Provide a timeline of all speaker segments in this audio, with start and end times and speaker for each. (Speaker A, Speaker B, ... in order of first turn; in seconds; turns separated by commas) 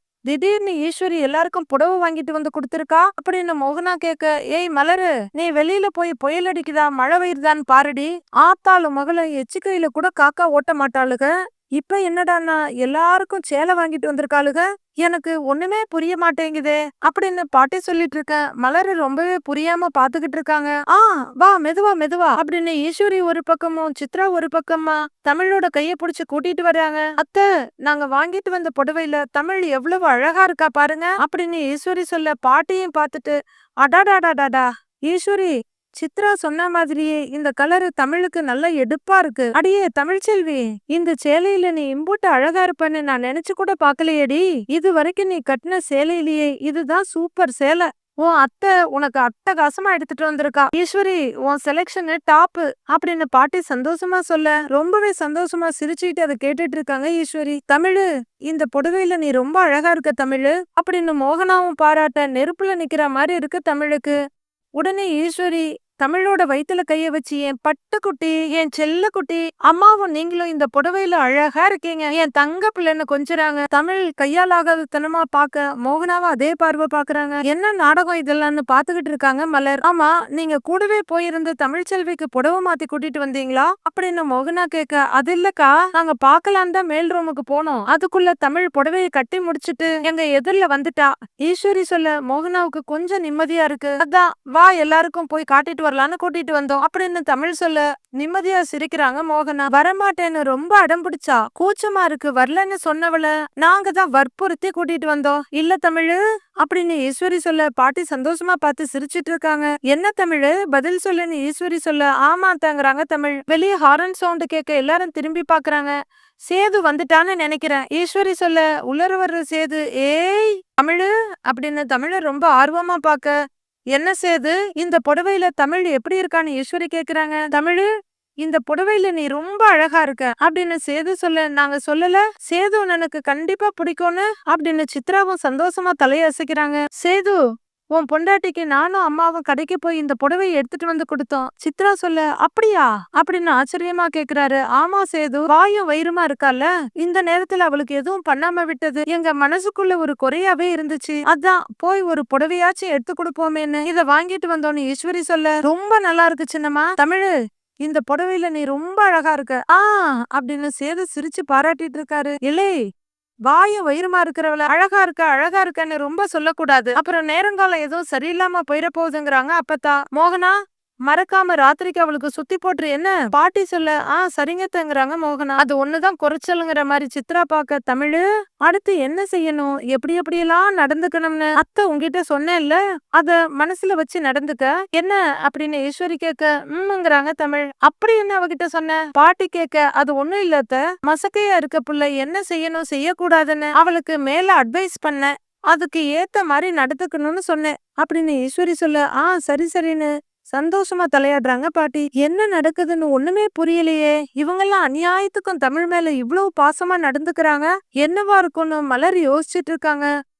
Speaker A: 0.3-64.2, Speaker A: 64.8-115.9, Speaker A: 116.5-123.3, Speaker A: 123.9-127.9, Speaker A: 128.4-137.4, Speaker A: 137.9-157.3, Speaker A: 157.8-162.8, Speaker A: 163.5-170.6, Speaker A: 171.1-210.1